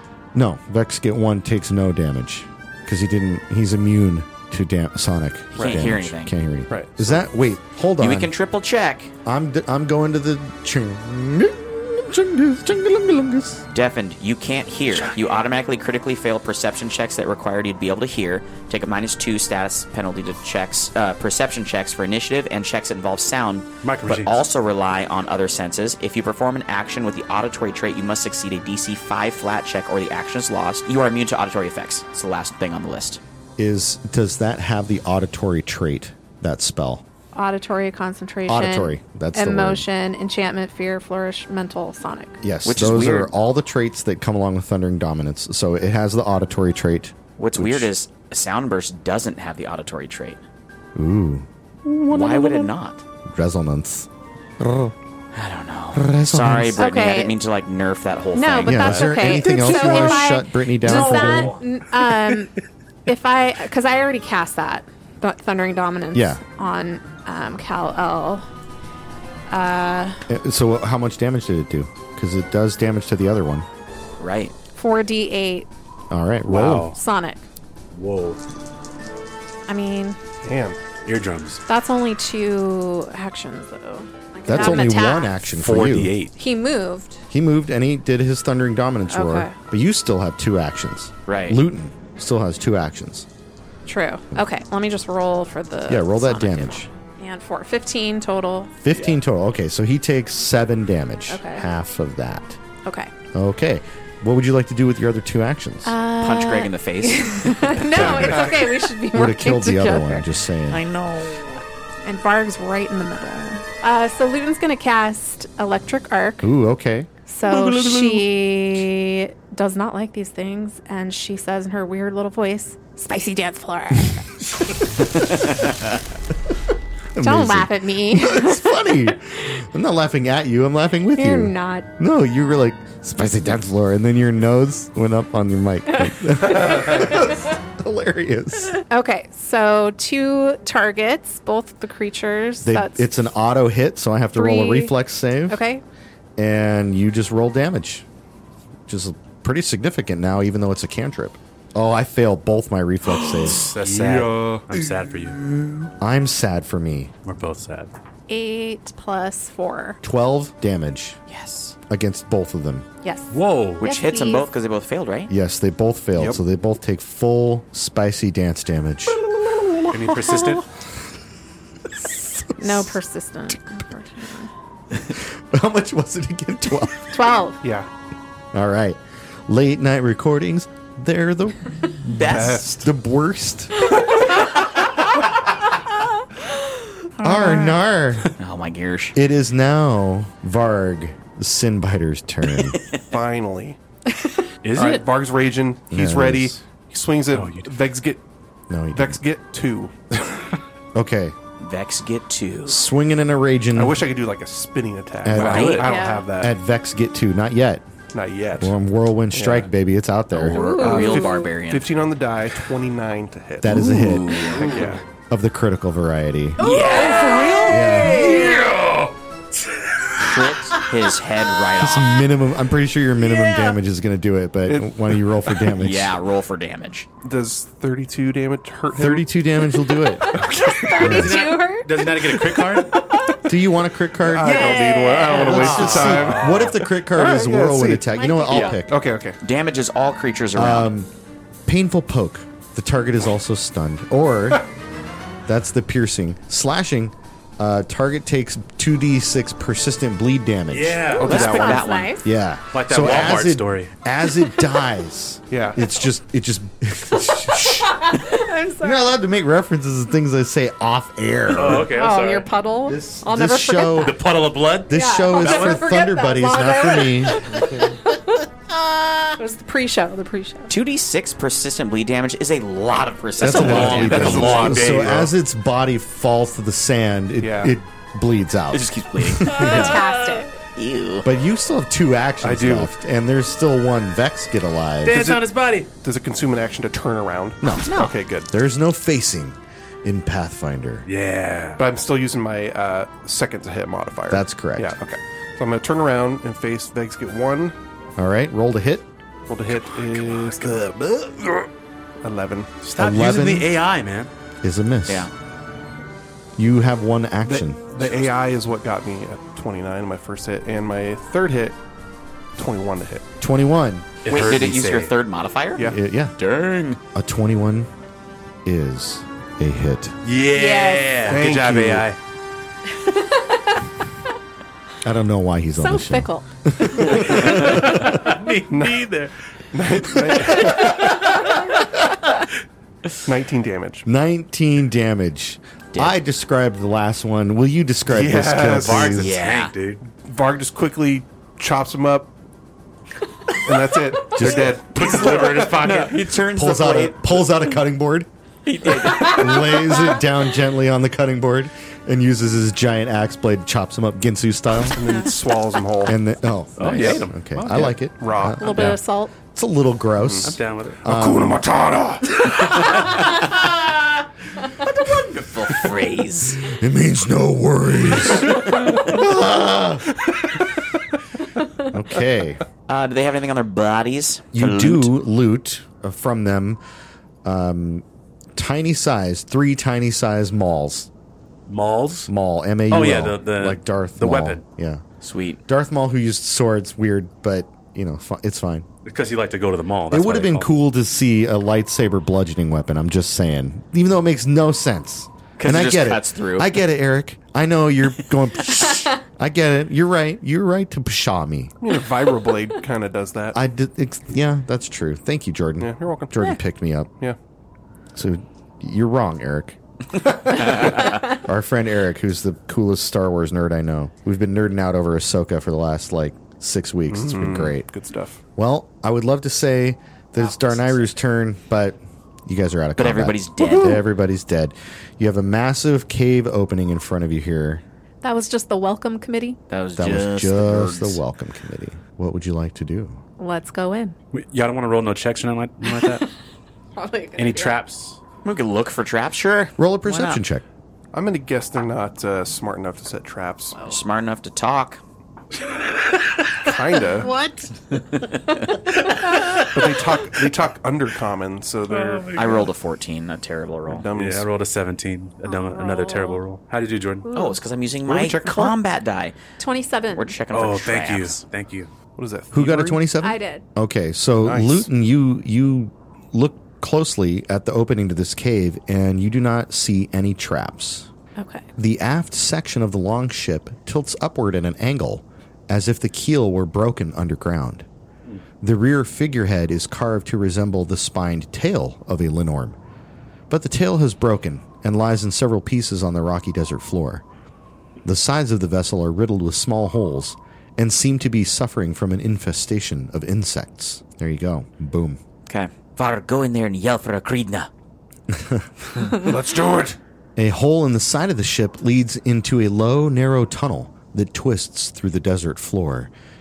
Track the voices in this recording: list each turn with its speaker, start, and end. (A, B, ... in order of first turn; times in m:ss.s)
0:00.3-0:08.3 A
0:05.6-0:05.9 B
0:05.6-0:06.3 C
0:06.7-0:07.2 B
0:08.0-0:09.1 C
0:09.2-0:13.6 A
0:13.7-0:33.2 C
0:23.8-0:24.4 D
0:33.6-0:37.0 A
0:37.3-0:42.4 E
0:38.5-0:39.9 A
0:42.4-0:47.9 A
0:42.6-0:43.3 C
0:47.4-0:50.4 C
0:51.0-0:52.7 A
0:52.1-0:53.0 C
0:53.3-0:54.1 A
0:54.6-0:55.0 A
0:55.3-1:00.1 C
0:55.9-0:56.8 A
0:56.8-0:57.4 E
0:58.4-1:02.5 E
0:58.7-1:01.6 A
0:59.2-0:59.6 D
1:03.1-1:08.5 E
1:06.1-1:06.4 A
1:09.5-1:10.2 E
1:10.3-1:13.7 A
1:14.2-1:14.5 C
1:14.8-1:15.7 E
1:16.1-1:17.0 A
1:16.5-1:17.0 D
1:16.9-1:17.4 E
1:17.9-1:18.4 D
1:19.7-1:20.2 E
1:20.4-1:20.8 B
1:21.0-1:21.6 D
1:21.7-1:25.4 E
1:24.5-1:26.2 A
1:25.5-1:26.3 D
1:26.4-1:27.2 E
1:27.3-1:33.3 A
1:29.1-1:29.6 E
1:31.3-1:31.6 C
1:33.9-1:38.7 E
1:35.9-1:36.9 A
1:38.8-1:42.6 A
1:41.3-1:41.7 E
1:42.8-1:43.1 E
1:43.3-1:46.0 A
1:45.8-1:50.3 E
1:46.2-1:48.4 C
1:47.9-1:48.6 A
1:48.0-1:48.7 B
1:49.1-1:50.8 A
1:50.7-1:51.6 C
1:52.0-1:56.6 E
1:56.4-1:57.1 A
1:57.3-2:04.2 E
2:07.2-2:18.8 A
2:07.2-2:08.9 E
2:11.1-2:11.9 E
2:18.9-2:23.1 E
2:22.6-2:25.6 A
2:24.3-2:25.0 E
2:25.5-2:25.8 E
2:26.4-2:28.1 A
2:28.9-2:33.7 A
2:33.2-2:35.9 B
2:33.5-2:35.4 D
2:36.0-2:37.1 A
2:37.2-2:37.9 D
2:38.3-2:40.0 E
2:40.0-2:41.2 A
2:41.3-2:41.8 C
2:41.9-2:42.9 A
2:43.0-2:44.5 E
2:43.3-2:43.8 D
2:43.8-2:45.3 C
2:45.3-2:49.2 A
2:46.2-2:46.4 B
2:49.4-2:50.3 B
2:49.9-2:50.6 D
2:52.0-2:54.5 E
2:52.6-2:52.9 A
2:55.0-2:57.2 A
2:57.1-2:57.6 E
2:57.6-2:57.9 B
2:58.5-3:04.0 A
3:02.1-3:02.8 C
3:02.2-3:02.9 B
3:07.2-3:08.3 A
3:07.2-3:07.7 E
3:08.4-3:09.2 C
3:09.2-3:12.8 A
3:12.7-3:13.0 C
3:13.1-3:13.8 B
3:14.6-3:15.0 D
3:14.7-3:18.2 B
3:15.9-3:16.6 A
3:17.3-3:17.8 D
3:18.7-3:19.2 A
3:18.9-3:20.3 B
3:21.0-3:21.4 A
3:21.6-3:22.8 C
3:22.7-3:24.0 A
3:23.7-3:26.6 B
3:25.2-3:27.9 A
3:25.3-3:25.9 C
3:25.8-3:26.3 E
3:28.1-3:28.8 B
3:28.6-3:30.7 A
3:29.3-3:29.7 B
3:30.3-3:31.9 C
3:30.5-3:31.5 E
3:30.8-3:35.0 B
3:33.6-3:34.6 A
3:33.7-3:35.0 C
3:35.3-3:36.6 A
3:36.6-3:38.7 E
3:36.6-3:38.8 C
3:37.6-3:38.4 A
3:38.4-3:39.0 D
3:40.2-3:42.2 C
3:41.8-3:46.2 A
3:44.7-3:45.6 B
3:45.8-3:47.1 C
3:47.2-3:49.3 B
3:48.9-3:50.3 A
3:50.2-3:53.3 E
3:50.3-3:51.3 B
3:50.9-3:53.1 D
3:51.0-3:51.4 A
3:53.4-3:54.8 A
3:54.2-3:59.4 B
3:54.5-3:55.7 E
3:55.3-3:59.0 A
3:55.5-3:56.8 D
3:58.1-3:58.8 E
3:59.4-4:00.9 C
4:00.6-4:01.1 A
4:01.7-4:04.7 A
4:05.5-4:11.2 A
4:10.7-4:11.6 D
4:11.1-4:12.3 E
4:11.2-4:11.9 B
4:11.2-4:12.2 C
4:12.2-4:22.0 A
4:12.7-4:13.9 D
4:15.5-4:15.8 B
4:17.9-4:19.1 E
4:21.5-4:22.5 D
4:21.8-4:24.2 E
4:22.9-4:24.3 A
4:24.0-4:25.8 D
4:24.8-4:27.8 A
4:24.9-4:30.7 E
4:30.7-4:34.6 C
4:33.4-4:40.0 A
4:33.4-4:35.3 D
4:33.5-4:35.1 B
4:37.4-4:37.7 B
4:38.7-4:40.0 C
4:39.5-4:40.5 E
4:40.8-4:41.3 C
4:41.2-4:45.2 A
4:42.4-4:42.9 B
4:45.0-4:45.9 D
4:45.1-4:48.5 B
4:47.6-4:51.1 A
4:51.1-4:51.8 D
4:51.8-4:57.8 B
4:54.3-4:55.0 A
4:58.2-4:59.1 A
4:59.5-5:00.9 B
4:59.7-5:01.7 D
5:02.2-5:02.8 B
5:02.8-5:04.3 D
5:03.0-5:03.7 A
5:04.6-5:05.3 A
5:06.6-5:07.9 A
5:07.4-5:11.8 B
5:12.6-5:13.2 B
5:13.4-5:14.1 A
5:14.2-5:15.1 D
5:14.3-5:15.9 C
5:15.8-5:16.0 B
5:15.8-5:16.4 A
5:16.4-5:17.0 C
5:17.2-5:17.9 A
5:18.6-5:20.2 A
5:20.2-5:22.2 D
5:20.5-5:21.2 E
5:21.2-5:22.1 B
5:22.9-5:23.8 E
5:25.0-5:28.3 A
5:25.8-5:26.4 E
5:27.1-5:29.3 D
5:28.7-5:29.1 B
5:29.7-5:31.3 B
5:30.2-5:30.8 D
5:33.2-5:34.1 B
5:34.0-5:39.4 A
5:38.1-5:39.2 B
5:38.7-5:40.0 D
5:39.2-5:39.7 C
5:40.0-5:42.3 B
5:43.6-5:46.1 B
5:44.3-5:44.8 A
5:45.0-5:46.2 D
5:45.0-5:47.5 C
5:46.5-5:48.3 A
5:48.6-5:50.0 C
5:49.0-5:55.1 A
5:54.9-5:56.2 B
5:56.0-6:01.6 A
5:56.8-5:58.0 D
5:56.9-5:59.0 B
5:58.6-5:59.3 E
6:00.2-6:02.4 B
6:00.4-6:01.1 D
6:02.5-6:03.2 D
6:04.8-6:06.7 C
6:06.7-6:10.1 A
6:11.8-6:12.6 A
6:12.9-6:15.1 C
6:14.5-6:16.8 A
6:17.4-6:18.0 A
6:18.6-6:21.1 A
6:21.7-6:22.3 D
6:22.3-6:25.0 A
6:22.9-6:24.6 D
6:25.2-6:25.6 C
6:25.7-6:28.9 A
6:29.0-6:30.7 D
6:30.1-6:41.7 A
6:35.6-6:36.8 C
6:41.8-6:43.6 B
6:43.5-6:47.1 A
6:45.8-6:46.6 B
6:48.2-6:49.8 A
6:50.5-6:57.9 A
6:57.1-6:58.4 B
6:58.6-7:07.8 A
7:00.4-7:00.8 C
7:03.0-7:04.0 C
7:08.2-7:09.6 E
7:09.7-7:11.2 C
7:10.0-7:13.2 A
7:13.4-7:14.2 E
7:14.3-7:16.3 D
7:16.0-7:16.3 E
7:17.0-7:17.8 E
7:17.4-7:18.2 D
7:18.4-7:20.4 C
7:19.8-7:20.6 A
7:21.1-7:23.8 B
7:23.7-7:24.0 E
7:23.9-7:25.0 C
7:26.6-7:27.3 B
7:27.2-7:27.7 E
7:29.0-7:29.7 D
7:29.7-7:32.4 B
7:31.9-7:32.7 D
7:32.4-7:34.1 C
7:33.9-7:34.5 B
7:34.1-7:37.3 D
7:35.4-7:36.4 E
7:37.2-7:37.6 E
7:37.3-7:39.4 C
7:38.1-7:38.8 B
7:39.6-7:40.4 E
7:40.1-7:41.4 C
7:40.5-7:41.9 D
7:42.2-7:43.0 B
7:42.5-7:51.1 A
7:43.2-7:43.7 E
7:44.4-7:44.9 B
7:51.4-7:51.7 E
7:51.8-7:57.9 A
7:58.6-8:02.8 A
8:03.5-8:07.2 A
8:08.0-8:15.2 A
8:15.5-8:17.7 C
8:18.3-8:18.7 A
8:19.2-8:20.0 C
8:20.4-8:26.1 A